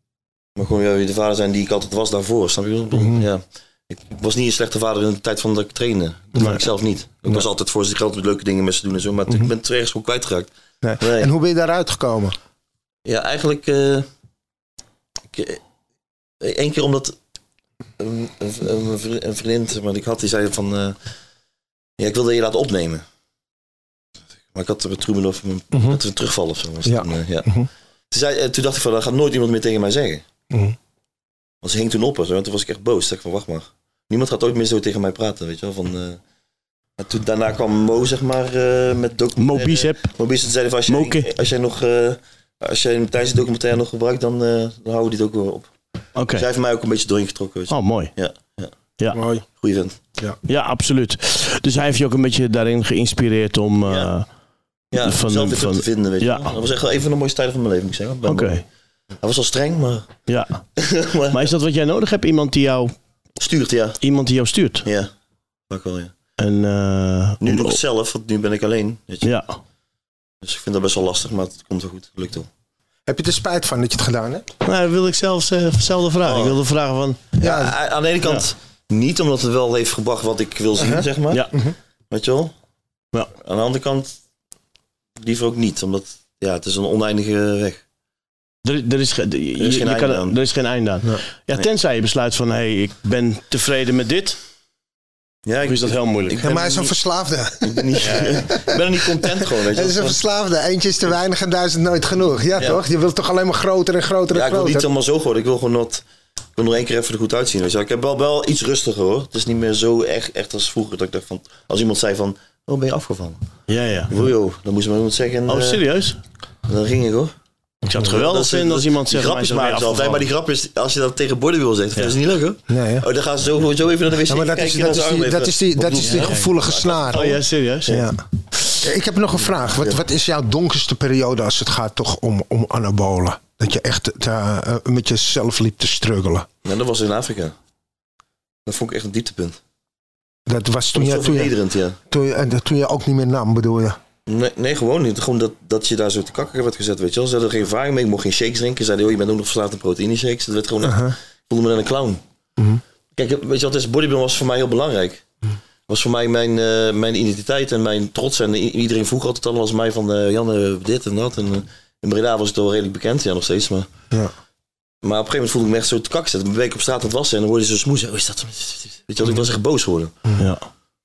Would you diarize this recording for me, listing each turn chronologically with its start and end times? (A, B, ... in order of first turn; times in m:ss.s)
0:00.6-0:11.3 A
0:02.9-0:03.2 B
0:10.8-0:12.4 B
0:13.0-0:14.1 A
0:15.3-0:15.6 A
0:16.4-0:17.1 A
0:18.0-0:21.0 A
0:22.0-0:23.0 A
0:24.5-0:27.5 A
0:25.7-0:26.0 B
0:26.8-0:27.7 B
0:28.1-0:30.2 A
0:30.5-0:30.8 B
0:31.6-0:36.2 A
0:37.0-0:45.7 A
0:39.4-0:40.0 C
0:40.9-0:41.3 C
0:46.2-0:46.4 C
0:46.3-0:48.7 A
0:47.7-0:48.1 C
0:49.1-0:49.4 B
0:49.6-0:50.0 A
0:50.5-0:54.2 C
0:53.8-0:54.1 A
0:54.9-0:58.6 A
0:55.0-0:56.5 C
0:58.2-0:58.6 C
0:59.2-1:00.1 A
1:00.3-1:00.6 C
1:00.8-1:01.5 A
1:01.3-1:02.9 C
1:03.4-1:04.0 A
1:04.0-1:04.9 C
1:04.8-1:05.1 A
1:05.7-1:06.1 A
1:06.4-1:07.8 C
1:07.4-1:09.3 A
1:09.2-1:09.5 C
1:10.4-1:12.5 A
1:13.1-1:14.5 B
1:14.6-1:17.2 C
1:16.2-1:16.6 A
1:17.4-1:21.5 A
1:17.4-1:17.8 B
1:20.8-1:21.7 B
1:22.1-1:22.5 A
1:23.3-1:24.2 A
1:25.2-1:27.8 A
1:28.6-1:34.4 C
1:29.6-1:30.4 A
1:35.4-1:36.9 A
1:35.6-1:36.4 C
1:36.4-1:44.9 B
1:37.6-1:40.2 A
1:38.0-1:38.4 C
1:44.3-1:46.0 A
1:46.6-1:53.4 A
1:53.7-1:54.1 C
1:54.1-1:55.8 A
1:55.5-1:56.2 C
1:56.7-1:57.3 A
1:57.8-1:58.2 B
1:57.9-2:00.2 C
1:58.0-2:08.0 A
2:02.7-2:03.0 B
2:04.3-2:07.3 B
2:06.0-2:06.4 C
2:07.1-2:08.0 C
2:07.9-2:16.5 B
2:16.6-2:17.5 A
2:18.6-2:19.6 A
2:20.5-2:21.5 B
2:20.9-2:22.0 A
2:22.1-2:24.0 B
2:24.3-2:32.2 A
2:30.8-2:31.2 B
2:33.2-2:35.2 A
2:35.9-2:43.9 A
2:45.0-2:50.1 A
2:50.4-2:50.6 C